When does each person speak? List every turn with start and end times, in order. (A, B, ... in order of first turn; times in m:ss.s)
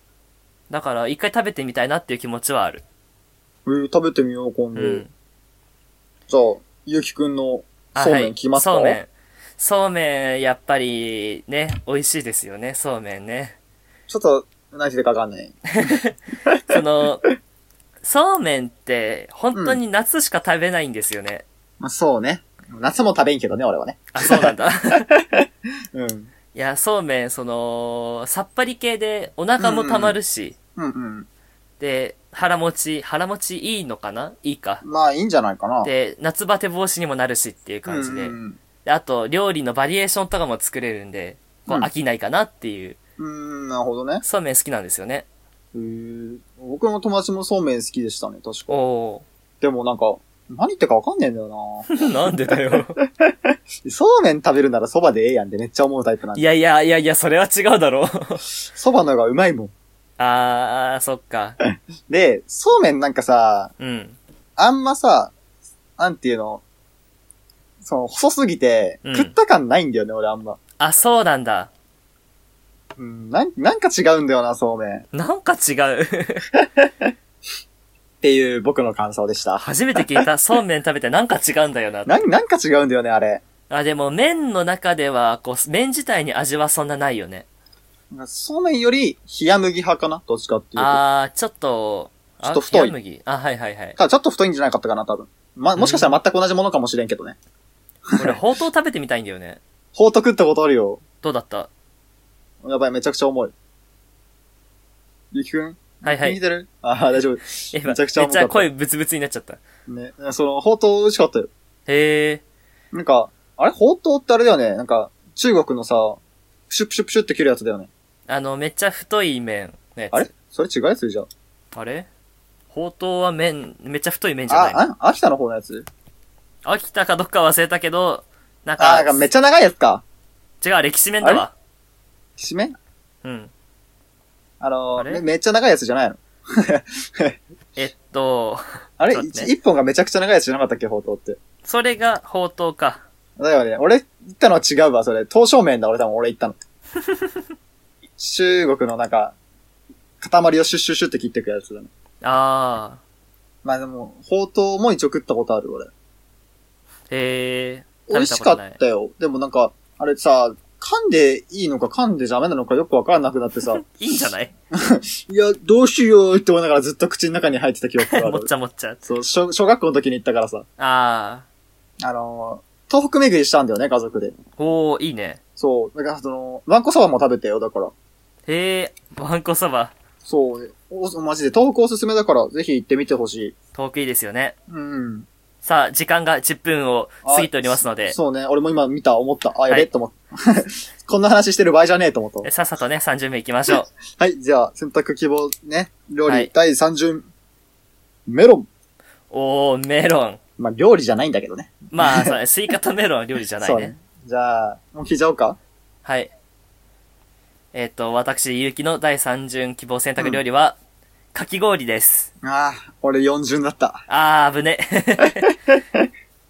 0:00.7-0:02.8 A
0:03.6-0:05.0 B
0:04.8-0:05.1 A
0:06.3-0:09.0 B
0:07.9-0:13.6 A
0:14.1-0:15.6 B
0:15.8-0:16.2 A
0:16.7-0:17.2 A
0:18.0-0:21.4 A
0:19.5-0:19.8 B
0:21.8-0:26.3 B
0:24.1-0:25.0 A
0:26.5-0:30.6 A
0:29.6-0:30.2 B
0:30.8-0:31.3 B
0:31.8-0:34.8 A
0:34.8-0:35.9 B
0:35.8-0:43.0 A
0:37.8-0:38.6 B
0:43.2-0:44.2 B
0:44.2-0:45.2 A
0:45.7-0:48.8 B
0:48.7-0:49.2 A
0:49.6-0:52.0 B
0:51.9-0:53.0 A
0:52.5-0:56.4 B
0:56.3-0:58.4 A
0:58.7-0:59.7 B
1:00.2-1:01.6 A
1:01.6-1:03.7 B
1:03.8-1:04.2 A
1:04.6-1:05.3 B
1:06.0-1:06.6 B
1:07.8-1:10.6 B
1:09.0-1:09.3 A
1:10.8-1:11.7 A
1:13.0-1:15.0 B
1:15.1-1:16.5 A
1:16.6-1:17.1 B
1:18.2-1:20.2 B
1:19.6-1:22.1 A
1:22.0-1:23.4 B
1:23.7-1:27.5 A
1:28.1-1:31.0 B
1:30.8-1:34.0 A
1:32.4-1:32.9 B
1:34.0-1:37.4 B
1:35.8-1:36.1 A
1:38.2-1:39.6 A
1:39.9-1:41.0 B
1:41.2-1:41.7 A
1:42.6-1:43.5 B
1:45.3-1:48.7 B
1:46.0-1:46.4 A
1:47.7-1:49.6 A
1:49.9-1:51.5 B
1:51.9-1:52.4 A
1:52.9-1:57.9 B
1:58.3-2:00.3 A
2:00.1-2:01.3 B
2:01.7-2:02.1 A
2:02.7-2:04.8 A
2:04.5-2:05.8 B
2:06.6-2:09.3 A
2:08.8-2:10.0 B
2:10.6-2:11.5 A
2:12.4-2:12.8 B
2:13.2-2:13.5 A
2:14.6-2:17.4 B
2:15.0-2:15.2 A
2:17.8-2:19.5 A
2:19.0-2:21.4 B
2:21.6-2:23.0 A
2:23.4-2:26.6 B
2:28.2-2:29.4 B
2:30.2-2:31.9 B
2:32.2-2:33.0 A
2:33.6-2:35.9 B
2:37.1-2:38.8 A
2:38.1-2:43.8 B
2:43.7-2:44.5 A
2:44.7-2:48.5 B
2:48.0-2:49.0 A
2:49.0-2:50.6 B
2:50.8-2:51.4 A
2:52.0-2:54.3 B
2:54.6-2:55.4 A
2:55.6-2:57.9 B
2:58.5-2:59.9 A
3:00.2-3:03.5 B
3:03.7-3:04.5 A
3:04.7-3:05.3 B
3:05.6-3:08.2 A
3:07.2-3:12.5 B
3:12.4-3:13.9 A
3:14.2-3:17.3 B
3:18.3-3:18.7 B
3:19.3-3:20.4 A
3:20.6-3:22.4 B
3:21.9-3:23.9 A
3:23.6-3:25.6 B
3:26.0-3:26.3 A
3:27.7-3:30.8 A
3:31.3-3:32.3 A
3:32.4-3:34.0 B
3:34.1-3:35.5 A
3:35.7-3:36.0 B